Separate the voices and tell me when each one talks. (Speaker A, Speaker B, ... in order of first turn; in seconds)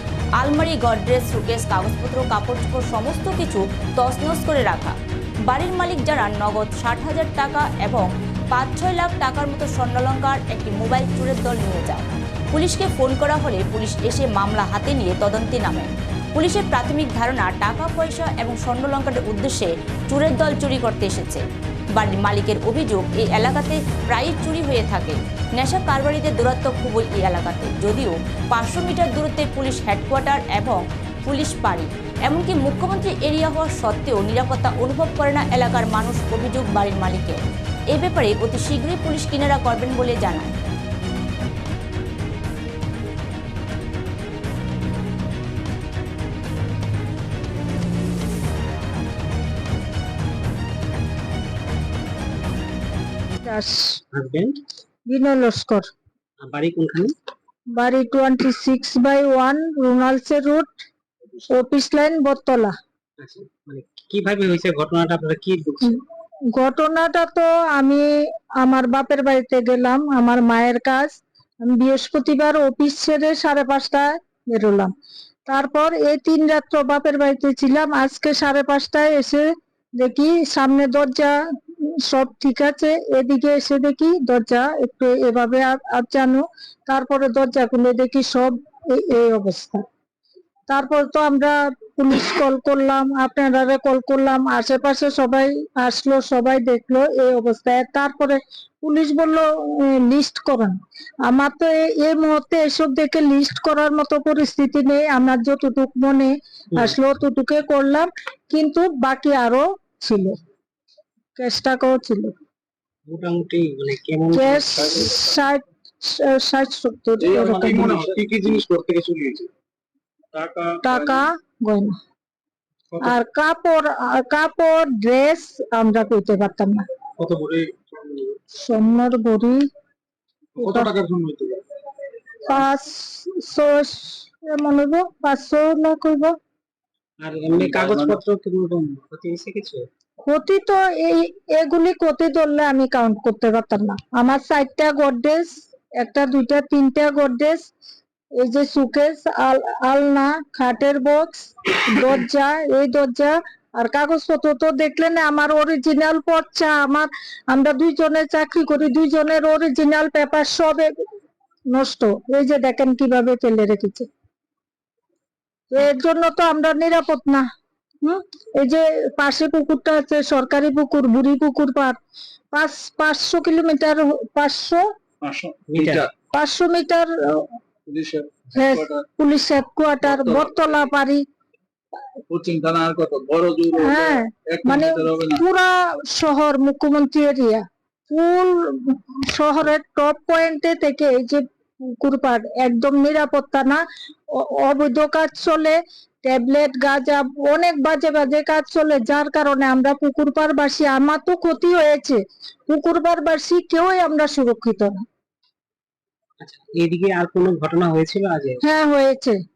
Speaker A: 0.4-5.0, 5.5-21.4, 21.9-40.5
Speaker B: 53.4-54.0, 55.1-55.9, 57.7-60.7, 61.5-62.7, 66.5-74.9, 75.5-79.5, 80.0-89.8, 90.7-110.3, 111.4-112.3, 114.3-118.0, 120.8-121.9, 123.0-126.8, 128.6-129.6, 130.6-130.9, 132.4-136.3, 140.2-147.6, 148.4-160.9, 161.7-164.1, 165.7-167.4, 168.0-172.0, 172.5-174.8, 176.3-177.5, 178.5-181.2, 183.7-205.0, 208.6-209.4
Speaker C: 54.1-54.6, 56.4-57.1, 63.2-66.0, 113.1-115.1, 117.7-118.2, 127.3-128.1, 137.2-139.9, 175.7-176.1, 206.4-208.6
Speaker D: 114.8-115.3, 117.2-119.5, 120.3-121.2, 127.2-127.7, 130.6-131.6, 137.5-138.2, 175.2-176.1, 177.9-179.1, 180.0-180.8, 182.3-185.4